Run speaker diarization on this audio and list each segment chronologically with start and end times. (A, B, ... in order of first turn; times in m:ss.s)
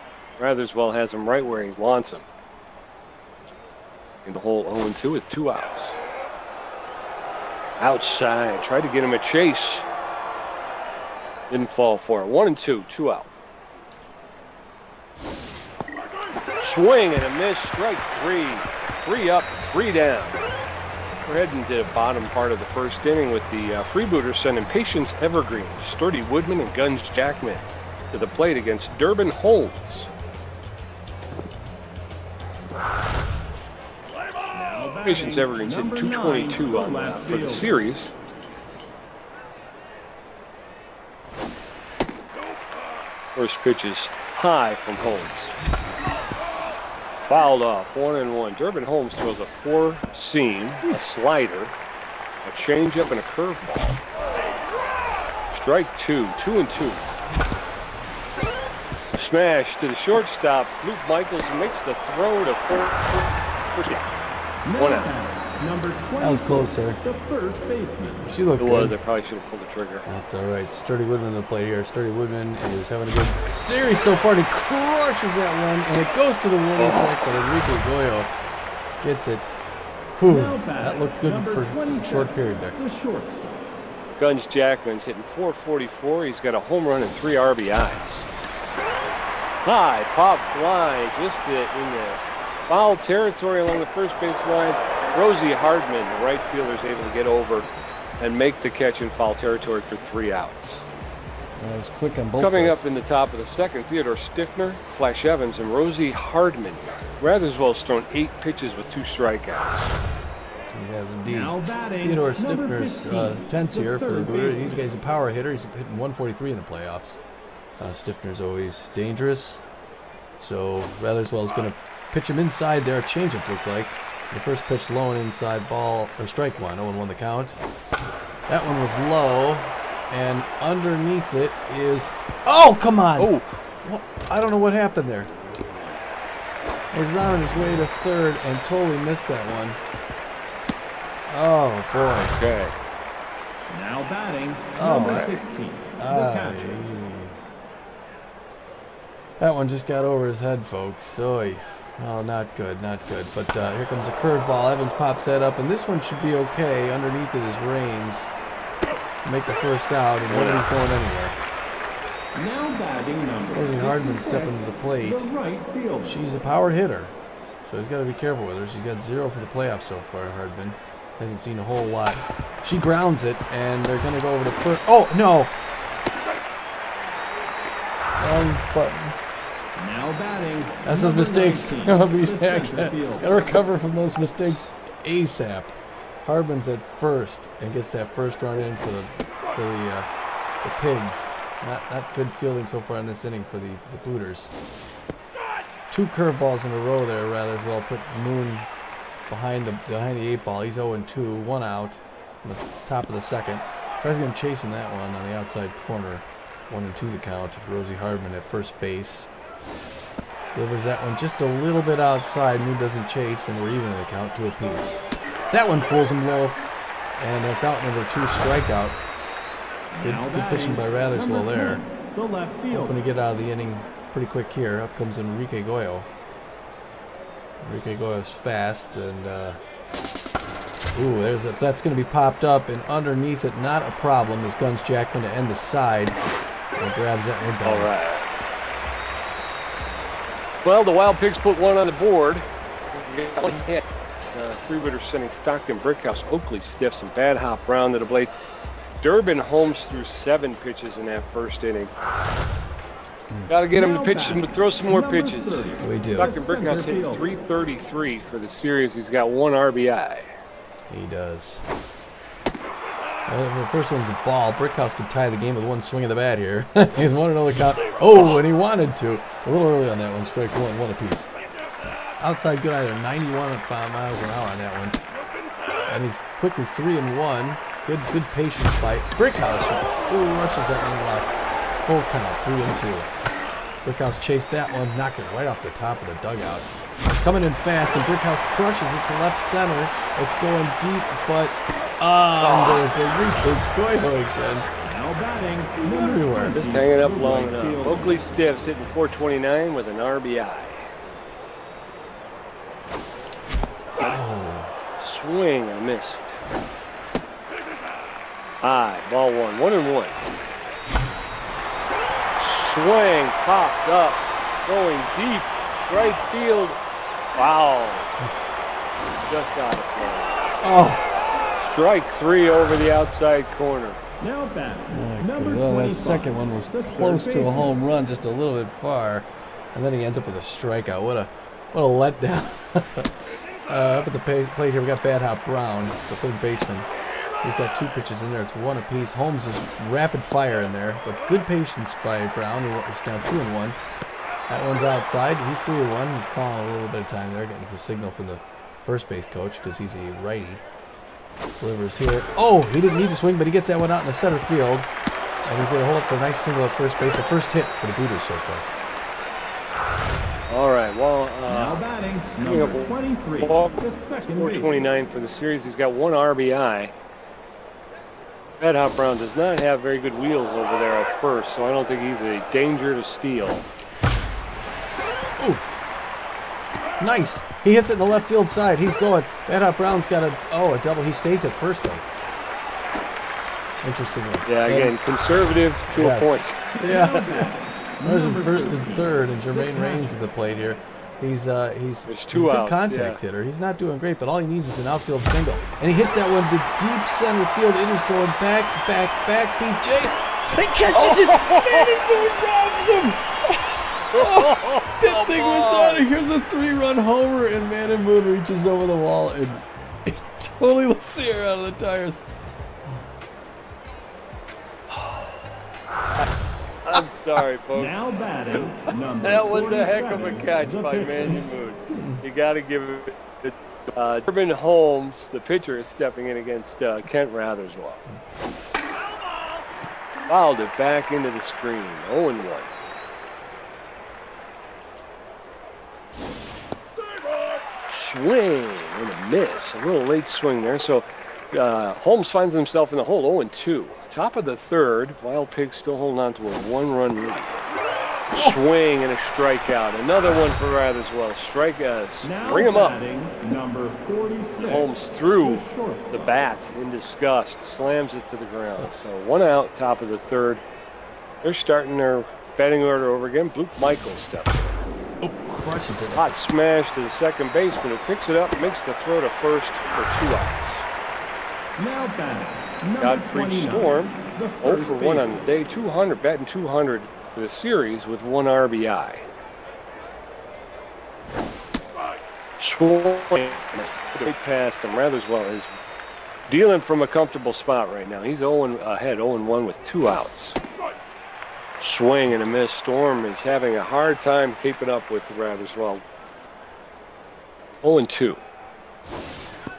0:00.4-0:02.2 A
0:04.2-0:06.0 A
0:07.8-0:09.9 A
0:11.5-0:13.3 A
0:16.6-0:20.4 A
0:21.2-0:30.1 A
0:34.5-0:37.8 B
0:35.0-0:38.1 A
0:43.4-0:45.5 A
0:47.2-0:51.7 A
0:50.9-0:51.1 C
0:52.4-0:54.0 A
0:55.5-0:57.0 A
0:59.1-1:04.1 A
1:04.7-1:08.4 B
1:04.8-1:05.1 A
1:06.2-1:07.0 C
1:08.2-1:09.0 C
1:08.6-1:10.1 A
1:10.1-1:18.3 C
1:16.8-1:17.0 A
1:19.0-1:19.5 C
1:20.1-1:22.8 C
1:20.3-1:23.7 B
1:24.2-1:28.3 A
1:29.6-1:40.8 A
1:41.6-1:42.8 C
1:42.4-1:50.0 A
1:50.7-1:57.2 C
1:51.2-1:54.9 B
1:57.8-1:59.6 C
2:00.4-2:07.6 C
2:08.5-2:13.3 C
2:13.2-2:13.6 A
2:13.8-2:15.3 C
2:16.9-2:19.8 C
2:21.3-2:22.3 C
2:22.2-2:22.8 A
2:23.7-2:26.8 B
2:24.7-2:25.4 C
2:26.0-2:27.4 C
2:29.4-2:38.3 C
2:39.2-2:41.4 C
2:40.3-2:40.6 A
2:42.4-2:46.2 B
2:43.5-2:45.3 C
2:46.0-2:55.5 C
2:58.2-2:59.2 C
2:59.8-3:03.4 B
3:00.8-3:10.1 C
3:10.6-3:14.5 C
3:15.9-3:18.7 C
3:19.3-3:29.3 C
3:30.6-3:36.6 C
3:37.2-3:39.0 C
3:39.9-3:43.0 B
3:40.0-3:41.8 C
3:42.7-3:46.1 C
3:47.6-3:49.6 C
3:50.9-3:56.2 C
3:56.8-3:57.9 C
3:57.6-3:58.3 A
4:00.6-4:08.3 A
4:09.0-4:11.9 A
4:13.5-4:15.7 A
4:13.7-4:17.2 B
4:15.8-4:16.3 C
4:16.2-4:20.3 A
4:20.9-4:21.6 C
4:23.3-4:31.3 C
4:32.2-4:35.0 C
4:35.9-4:41.3 C
4:41.8-4:43.1 C
4:43.8-4:54.7 C
4:52.4-4:52.8 A
4:54.8-4:58.2 B
4:55.8-4:56.6 C
4:56.6-5:00.8 A
5:04.0-5:04.7 C
5:05.0-5:06.4 A
5:08.6-5:10.2 A
5:12.4-5:16.8 A
5:17.4-5:18.1 A
5:19.2-5:20.3 A
5:20.6-5:21.0 C
5:21.6-5:24.0 A
5:24.2-5:27.8 B
5:24.9-5:36.9 C
5:37.4-5:43.8 C
5:44.5-5:50.6 C
5:51.6-5:54.9 C
5:55.4-5:58.7 C
6:00.5-6:01.8 A
6:01.5-6:04.8 B
6:02.4-6:06.9 A
6:08.6-6:13.7 A
6:15.4-6:15.6 C
6:17.0-6:22.0 C
6:23.8-6:25.0 C
6:24.5-6:27.2 A
6:25.9-6:27.5 C
6:26.8-6:30.2 B
6:28.0-6:52.2 C
6:32.1-6:33.2 A
6:40.9-6:41.9 A
6:44.1-6:46.1 A
6:54.9-6:55.4 A
6:56.8-6:58.1 A
6:57.8-7:01.5 B
6:59.2-7:08.0 A
7:01.9-7:02.2 C
7:10.3-7:12.7 A
7:17.9-7:27.6 A
7:28.3-7:33.0 A
7:32.2-7:36.4 B
7:34.6-7:40.6 A
7:41.4-7:44.8 A
7:45.2-7:46.3 C
7:46.1-7:50.8 A
7:51.8-7:55.4 B
7:53.0-7:59.3 A
8:02.6-8:05.7 A
8:06.5-8:10.6 A
8:11.8-8:16.0 A
8:17.8-8:18.4 A